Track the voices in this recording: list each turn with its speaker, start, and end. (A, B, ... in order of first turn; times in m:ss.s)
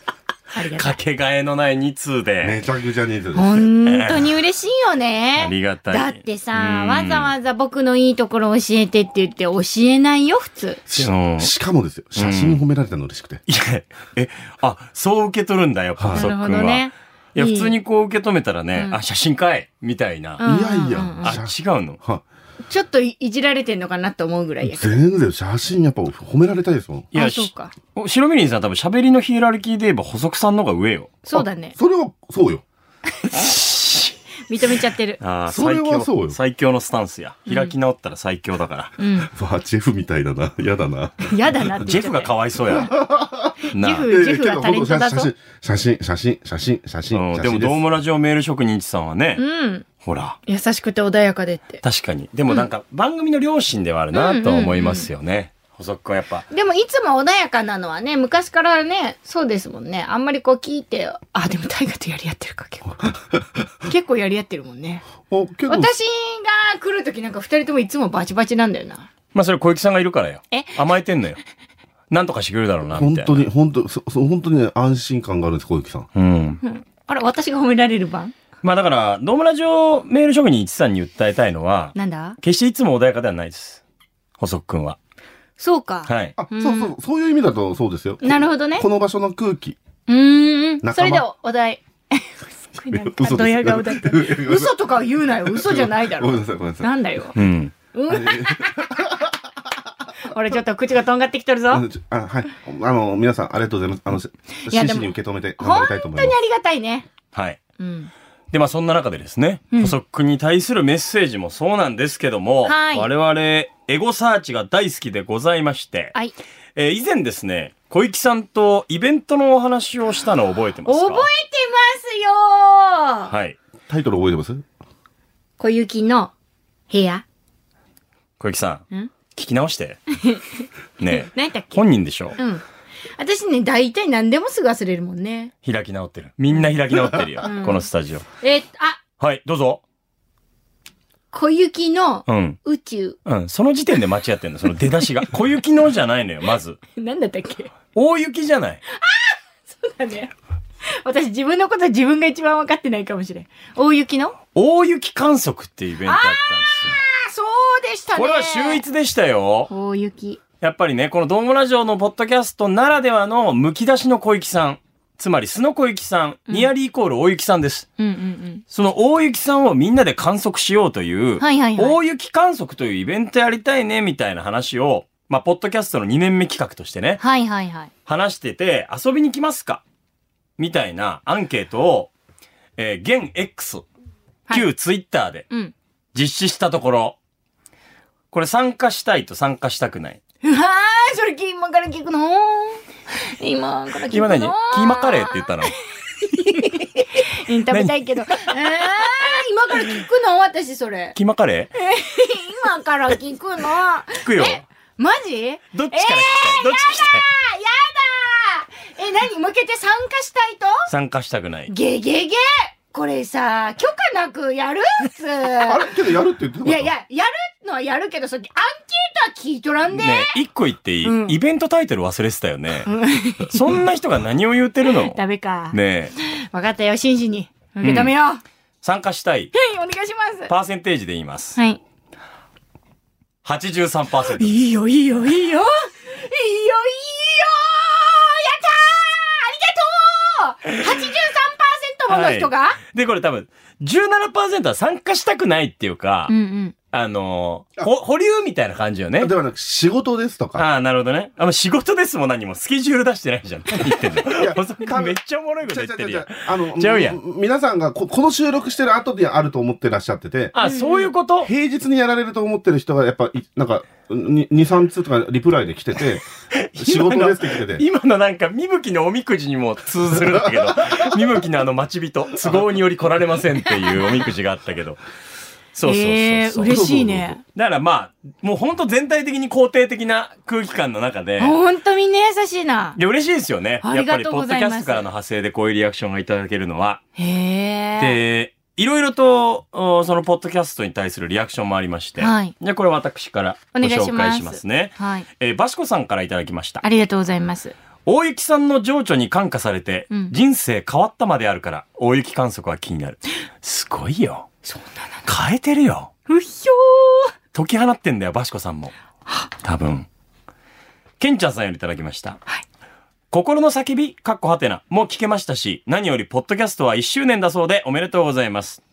0:00.5-0:01.0 A
0:00.8-0:02.6 B
0:02.4-0:03.6 C
0:03.4-0:10.8 A
0:03.8-0:04.4 B
0:05.4-0:07.3 B
0:10.9-0:13.4 C
0:11.0-0:11.5 B
0:12.2-0:12.6 B
0:13.5-0:20.4 B
0:16.0-0:16.3 C
0:16.1-0:17.8 A
0:20.4-0:21.3 A
0:20.4-0:22.2 C
0:21.2-0:22.0 B
0:22.7-0:24.9 A
0:24.6-0:27.1 C
0:27.1-0:31.2 B
0:27.2-0:27.7 A
0:31.3-0:31.8 A
0:31.3-0:32.6 C
0:33.2-0:33.5 A
0:33.4-0:34.2 B
0:34.5-0:35.2 A
0:35.2-0:39.0 B
0:35.5-0:36.4 C
0:37.5-0:37.7 A
0:39.0-0:39.3 A
0:39.3-0:41.4 C
0:41.3-0:42.3 A
0:41.8-0:42.9 B
0:42.7-0:47.8 C
0:43.7-0:45.3 A
0:43.7-0:44.1 B
0:47.1-0:49.4 B
0:49.4-0:49.8 A
0:50.0-0:50.4 B
0:50.5-0:51.8 A
0:51.8-0:56.4 B
0:54.1-0:55.1 A
0:56.5-1:03.1 A
1:03.0-1:03.7 C
1:03.8-1:05.0 A
1:05.2-1:05.9 C
1:05.7-1:09.1 A
1:09.3-1:11.4 B
1:10.5-1:10.8 A
1:12.1-1:13.5 B
1:13.0-1:16.1 C
1:16.2-1:16.6 B
1:16.6-1:18.4 A
1:18.6-1:23.8 B
1:22.0-1:22.4 A
1:24.4-1:25.0 B
1:25.6-1:27.0 A
1:26.1-1:26.4 B
1:26.4-1:29.8 C
1:28.2-1:28.9 A
1:30.1-1:37.4 A
1:30.8-1:31.2 C
1:32.9-1:34.8 C
1:35.4-1:36.9 C
1:37.4-1:37.7 B
1:37.9-1:39.0 A
1:38.1-1:39.4 C
1:40.3-1:41.8 A
1:41.7-1:46.4 C
1:44.7-1:47.1 A
1:47.3-1:47.6 B
1:47.8-1:48.1 A
1:48.5-1:56.2 B
1:52.6-1:53.1 A
1:56.8-2:01.3 B
2:00.9-2:03.3 A
2:03.3-2:03.6 B
2:03.9-2:04.6 C
2:05.6-2:06.3 A
2:06.9-2:07.2 A
2:08.4-2:10.0 B
2:10.2-2:11.8 A
2:11.0-2:12.4 B
2:12.4-2:12.6 A
2:13.2-2:15.5 A
2:15.6-2:18.3 B
2:16.9-2:17.3 C
2:17.4-2:17.9 A
2:18.4-2:19.0 A
2:19.2-2:19.8 B
2:21.3-2:23.2 A
2:22.3-2:22.6 B
2:23.3-2:26.8 B
2:27.0-2:27.7 A
2:28.0-2:28.8 B
2:28.9-2:30.3 A
2:31.0-2:34.4 A
2:34.6-2:37.0 B
2:36.0-2:38.8 A
2:38.2-2:39.7 B
2:39.7-2:40.4 A
2:40.6-2:47.9 B
2:48.0-2:48.6 A
2:48.7-2:57.2 B
2:51.4-2:52.0 A
2:57.2-2:57.9 A
2:58.1-2:59.8 B
3:00.6-3:02.1 B
3:02.8-3:03.8 B
3:04.5-3:05.5 B
3:06.2-3:07.2 B
3:08.3-3:10.2 B
3:10.4-3:15.7 A
3:14.1-3:15.7 B
3:16.2-3:21.2 A
3:17.7-3:18.5 B
3:21.2-3:21.7 B
3:21.8-3:30.9 A
3:24.2-3:24.6 B
3:25.7-3:27.2 B
3:30.9-3:31.7 B
3:31.7-3:35.8 A
3:35.6-3:36.9 C
3:36.6-3:40.4 A
3:39.9-3:42.9 B
3:41.0-3:41.4 A
3:42.9-3:43.8 A
3:43.5-3:45.2 B
3:44.9-3:48.4 A
3:45.7-3:46.1 B
3:47.8-3:48.1 B
3:48.8-3:49.5 B
3:49.5-3:50.5 A
3:50.5-3:51.6 B
3:53.4-3:54.6 B
3:54.3-4:02.8 A
4:02.1-4:06.3 B
4:06.3-4:06.8 A
4:06.9-4:09.3 B
4:09.2-4:10.7 C
4:10.6-4:17.2 B
4:14.3-4:20.5 C
4:20.5-4:21.5 B
4:20.6-4:21.1 A
4:21.4-4:27.8 C
4:26.6-4:35.0 B
4:30.2-4:31.1 C
4:35.7-4:36.8 B
4:35.8-4:37.4 A
4:36.7-4:37.4 C
4:37.6-4:41.6 B
4:41.4-4:43.0 A
4:43.0-4:47.0 B
4:43.8-4:45.0 A
4:47.2-4:48.2 A
4:48.0-4:56.8 B
4:52.2-4:52.5 A
4:53.7-4:55.3 A
4:56.8-4:57.8 A
4:58.1-5:04.5 B
5:00.1-5:00.4 A
5:04.7-5:05.3 A
5:05.3-5:06.1 B
5:06.3-5:07.3 A
5:07.5-5:08.9 B
5:09.6-5:10.1 B
5:11.2-5:12.4 B
5:13.3-5:18.8 B